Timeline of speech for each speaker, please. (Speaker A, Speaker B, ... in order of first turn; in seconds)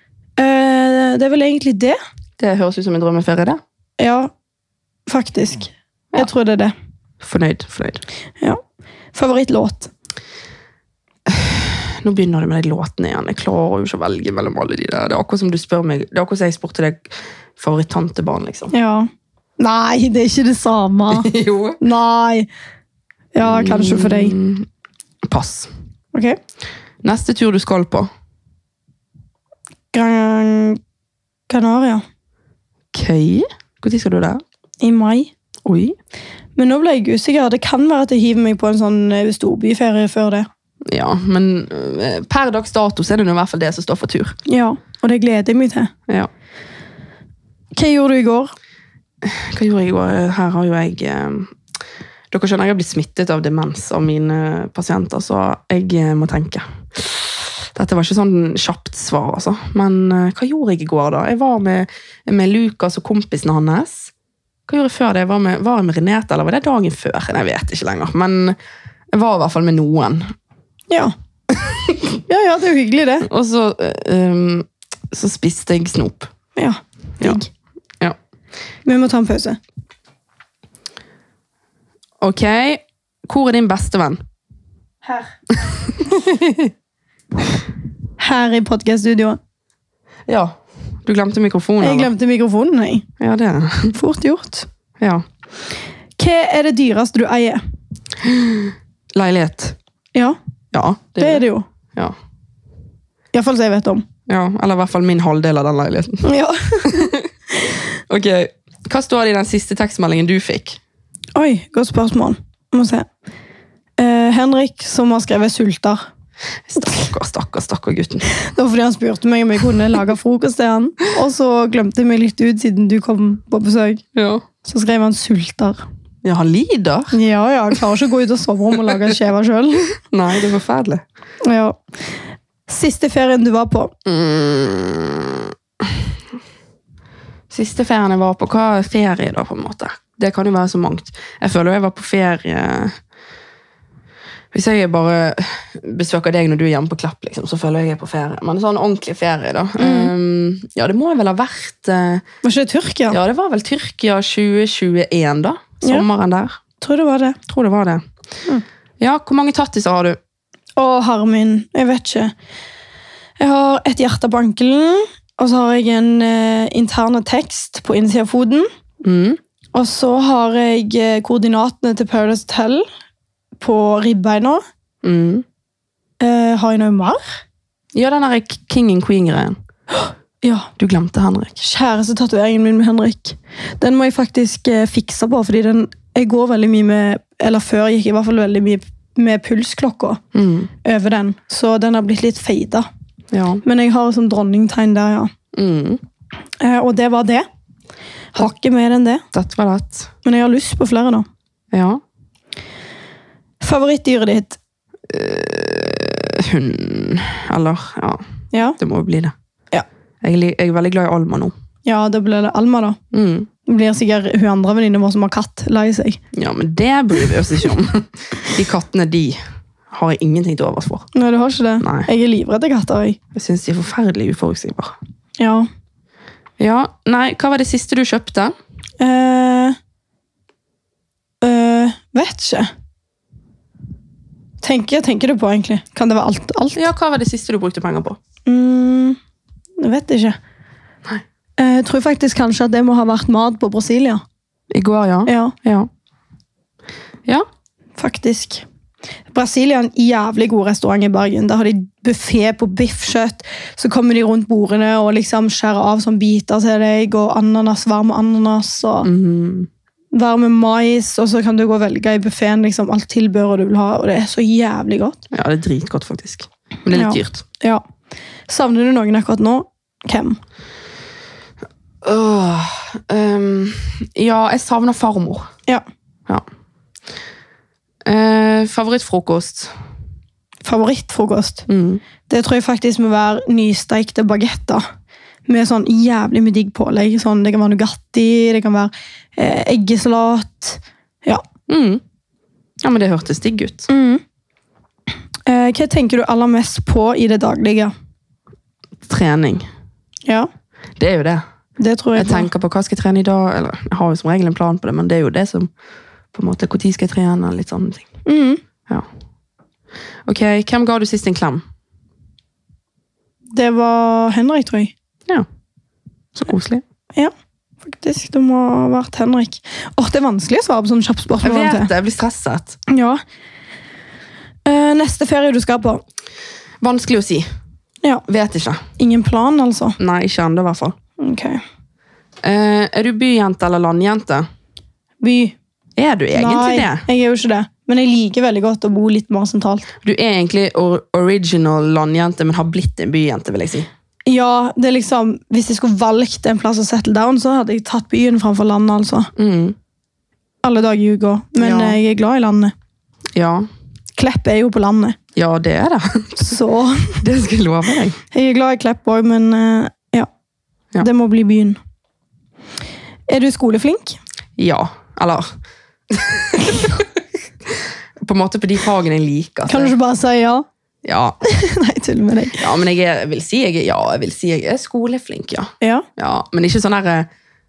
Speaker A: 0.4-2.0, 4.0-4.3, 5.1-6.7, 9.1-9.9, 18.7-22.5, 23.3-24.4, 29.9-30.8, 31.5-32.0, 34.8-35.3, 36.5-40.5, 44.5-45.9, 47.7-48.5, 72.3-73.3, 76.5-77.5, 78.8-79.6, 88.2-89.4, 91.8-93.0, 93.9-94.7, 96.2-97.6, 101.2-101.7, 103.3-104.0, 106.2-107.1, 111.3-113.0, 114.0-116.0, 118.3-124.0, 124.6-125.8, 127.1-130.0, 131.4-131.8, 132.7-133.9, 149.8-150.1, 152.4-153.2, 156.8-157.4, 160.8-162.3, 163.4-168.7, 169.7-172.8, 173.6-174.6, 176.2-177.2, 180.0-180.7, 181.6-190.2, 190.8-192.9, 193.6-195.3, 196.6-197.4, 198.3-199.2, 200.2-201.2, 203.6-204.6, 208.5-208.8, 211.8-213.0, 213.7-216.2, 221.1-223.2, 225.4-225.7, 229.0-229.8, 231.4-232.7, 234.6-236.9, 238.4-239.2, 239.8-240.4, 241.6-244.2, 245.2-245.5, 248.0-248.6, 249.3-259.1, 260.1-265.2, 266.9-267.8, 268.5-270.4, 280.6-281.7, 282.3-284.8, 285.5-291.4, 293.9-294.2, 295.4-297.9, 301.8-302.5, 308.2-308.6, 313.5-314.9, 317.8-321.9, 322.9-323.2, 324.6-326.0, 329.0-330.0, 331.2-331.6, 335.2-335.6, 336.3-339.9, 344.2-349.3, 350.6-352.7, 354.2-355.2, 356.4-357.2, 358.3-360.3, 361.0-361.8, 363.3-364.2, 369.7-370.6, 371.4-372.6, 375.8-376.1
Speaker B: 2.4-3.6, 7.2-8.0, 11.3-18.7, 21.1-21.8, 23.4-24.7, 25.2-25.7, 27.0-28.1, 32.9-34.4, 35.6-36.0, 40.9-44.4, 49.2-51.5, 52.3-64.1, 64.7-68.5, 69.1-70.3, 71.5-72.2, 73.2-76.3, 82.2-84.2, 85.5-86.7, 90.3-92.1, 93.2-93.9, 95.0-95.2, 98.2-99.8, 100.7-102.1, 104.3-106.2, 106.8-107.3, 108.1-110.8, 116.7-118.3, 124.2-124.4, 126.2-127.2, 128.8-129.1, 130.1-131.0, 134.0-136.0, 137.5-142.9, 144.5-152.2, 153.1-156.6, 157.5-158.0, 159.0-160.2, 169.0-169.4, 175.0-175.4, 177.9-179.6, 180.8-181.6, 190.3-190.7, 193.3-193.6, 195.5-196.0, 199.3-200.1, 201.7-202.0, 205.1-208.2, 208.8-209.3, 210.2-211.5, 213.1-213.5, 216.3-219.4, 219.9-221.1, 221.8-222.1, 223.3-224.9, 226.6-228.5, 236.7-238.2, 244.7-245.9, 259.0-259.7, 265.3-267.4, 272.0-275.5, 278.1-279.7, 281.7-282.0, 291.7-292.0, 292.8-293.9, 299.0-299.7, 301.0-301.4, 302.1-305.7, 306.3-308.1, 310.2-311.6, 316.3-316.8, 321.4-322.8, 326.8-327.4, 328.3-328.8, 330.0-330.9, 332.4-334.4, 336.0-337.0, 340.0-343.9, 349.4-349.8, 351.6-352.0, 353.3-353.7, 355.4-356.6, 357.2-358.2, 364.6-365.5, 366.1-369.9, 371.0-371.4, 372.6-377.3